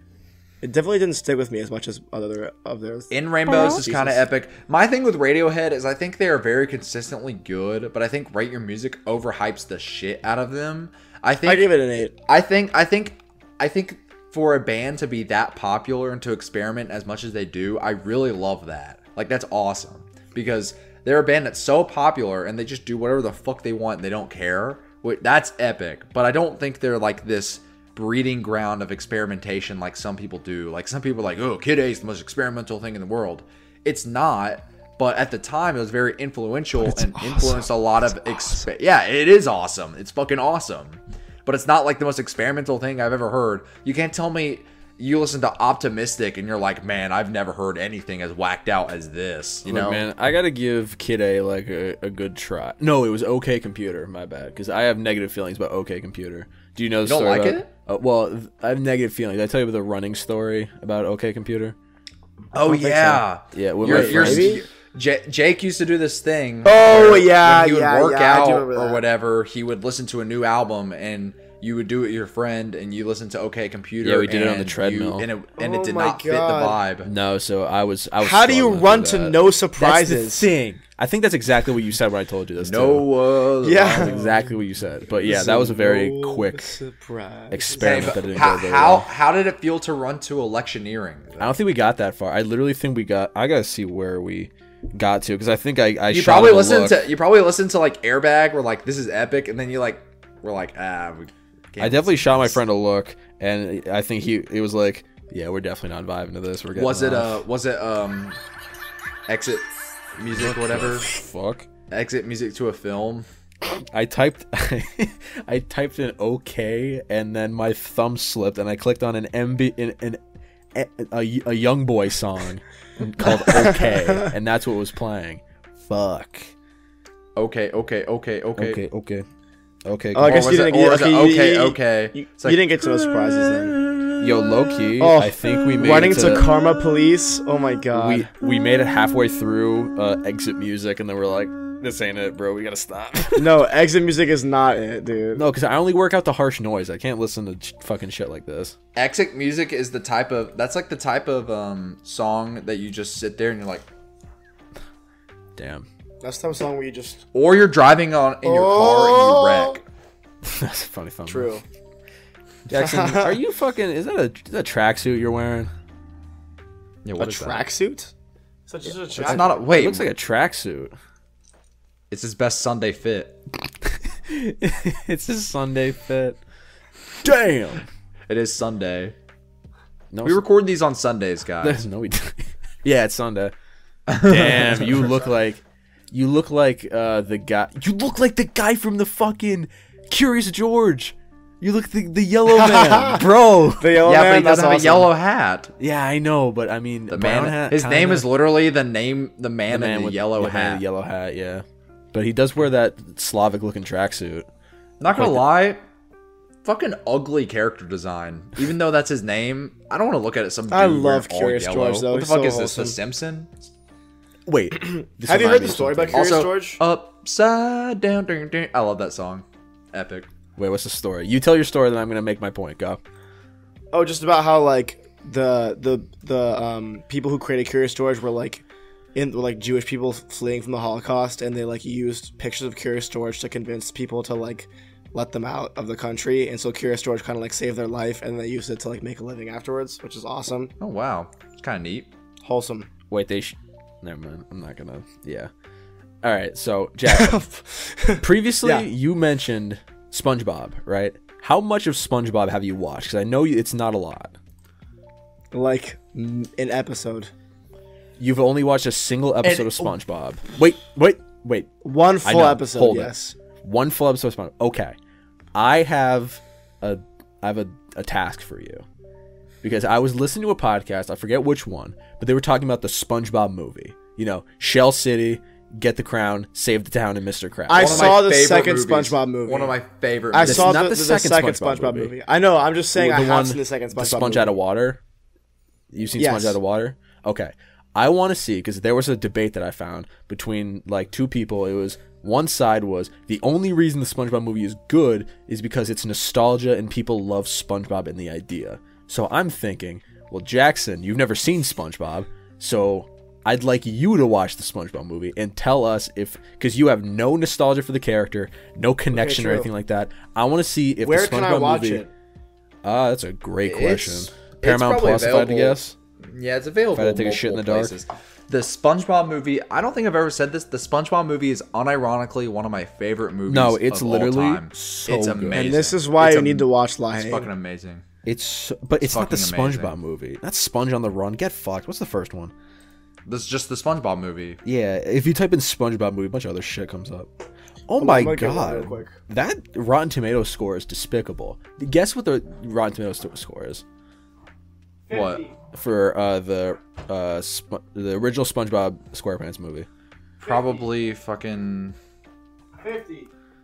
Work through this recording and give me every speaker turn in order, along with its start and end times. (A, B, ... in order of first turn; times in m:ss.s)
0:00.6-0:04.2 A
0:03.1-0:11.7 B
0:11.4-0:12.1 A
0:12.2-0:50.0 B
0:36.9-0:38.6 A
0:49.6-1:01.8 C
0:57.0-0:57.7 B
1:02.5-1:17.1 B
1:02.6-1:03.2 A
1:03.5-1:04.6 C
1:03.8-1:04.6 A
1:06.6-1:09.0 A
1:14.0-1:15.3 C
1:15.6-1:16.8 A
1:17.0-1:23.1 C
1:18.2-1:20.5 A
1:22.6-1:24.3 B
1:23.6-1:24.3 A
1:23.8-1:26.7 C
1:25.1-1:28.2 A
1:27.5-1:29.1 C
1:27.8-1:31.6 B
1:31.4-1:37.0 C
1:36.1-1:42.6 B
1:41.8-1:47.4 C
1:46.7-1:48.4 B
1:49.3-1:51.1 B
1:50.4-1:51.7 C
1:51.9-1:53.2 B
1:53.7-2:00.2 C
2:00.7-2:06.5 C
2:03.4-2:04.3 A
2:07.4-2:08.8 B
2:08.6-2:09.2 C
2:09.8-2:10.5 C
2:10.1-2:13.8 A
2:10.2-2:12.8 B
2:14.2-2:16.5 C
2:15.0-2:18.3 A
2:17.9-2:23.6 C
2:23.4-2:25.4 A
2:25.3-2:28.8 C
2:28.9-2:33.8 B
2:35.6-2:35.8 C
2:36.2-2:37.2 A
2:37.3-2:39.8 B
2:38.4-2:39.8 A
2:40.4-2:41.5 C
2:41.2-2:41.6 A
2:42.7-2:45.7 C
2:42.7-2:43.4 A
2:47.0-2:47.6 B
2:47.2-2:48.1 A
2:48.7-2:49.6 A
2:49.2-2:50.1 B
2:49.2-2:50.9 C
2:52.1-2:53.4 B
2:53.8-2:56.4 C
2:57.2-2:57.8 C
2:58.3-2:59.1 B
3:00.1-3:00.4 C
3:00.2-3:01.8 B
3:01.6-3:03.5 C
3:04.1-3:04.9 B
3:04.1-3:13.9 C
3:12.5-3:13.2 A
3:13.8-3:15.1 A
3:14.0-3:15.7 B
3:15.8-3:18.3 C
3:17.1-3:20.8 B
3:19.7-3:24.5 C
3:25.0-3:25.8 B
3:25.1-3:25.4 C
3:26.6-3:33.7 B
3:30.7-3:33.0 A
3:34.5-3:36.3 C
3:34.8-3:36.8 A
3:36.1-3:40.3 B
3:40.6-3:43.0 C
3:43.9-4:00.7 A
4:00.8-4:02.1 B
4:02.4-4:02.9 A
4:03.1-4:05.5 C
4:06.2-4:07.4 C
4:07.1-4:08.9 A
4:08.2-4:14.3 C
4:15.5-4:17.3 A
4:18.2-4:21.7 C
4:19.4-4:19.9 B
4:21.8-4:23.4 A
4:22.2-4:25.0 C
4:25.5-4:28.8 C
4:29.6-4:38.2 C
4:37.7-4:39.8 A
4:37.7-4:40.8 B
4:40.3-4:44.5 A
4:40.4-4:42.1 C
4:42.9-4:45.0 C
4:45.9-5:12.0 C
4:46.2-4:46.6 A
5:09.1-5:09.7 A
5:11.0-5:12.1 A
5:12.8-5:15.9 C
5:13.6-5:28.0 B
5:16.9-5:18.0 C
5:23.5-5:25.7 C
5:25.5-5:27.5 A
5:28.2-5:32.5 C
5:29.0-5:29.9 B
5:33.3-5:34.6 B
5:34.6-5:37.3 C
5:37.9-5:43.8 C
5:38.0-5:39.2 A
5:45.1-5:45.5 A
5:45.1-5:45.4 B
5:45.7-5:49.9 C
5:50.4-5:50.8 A
5:50.4-5:52.0 B
5:52.8-5:53.3 A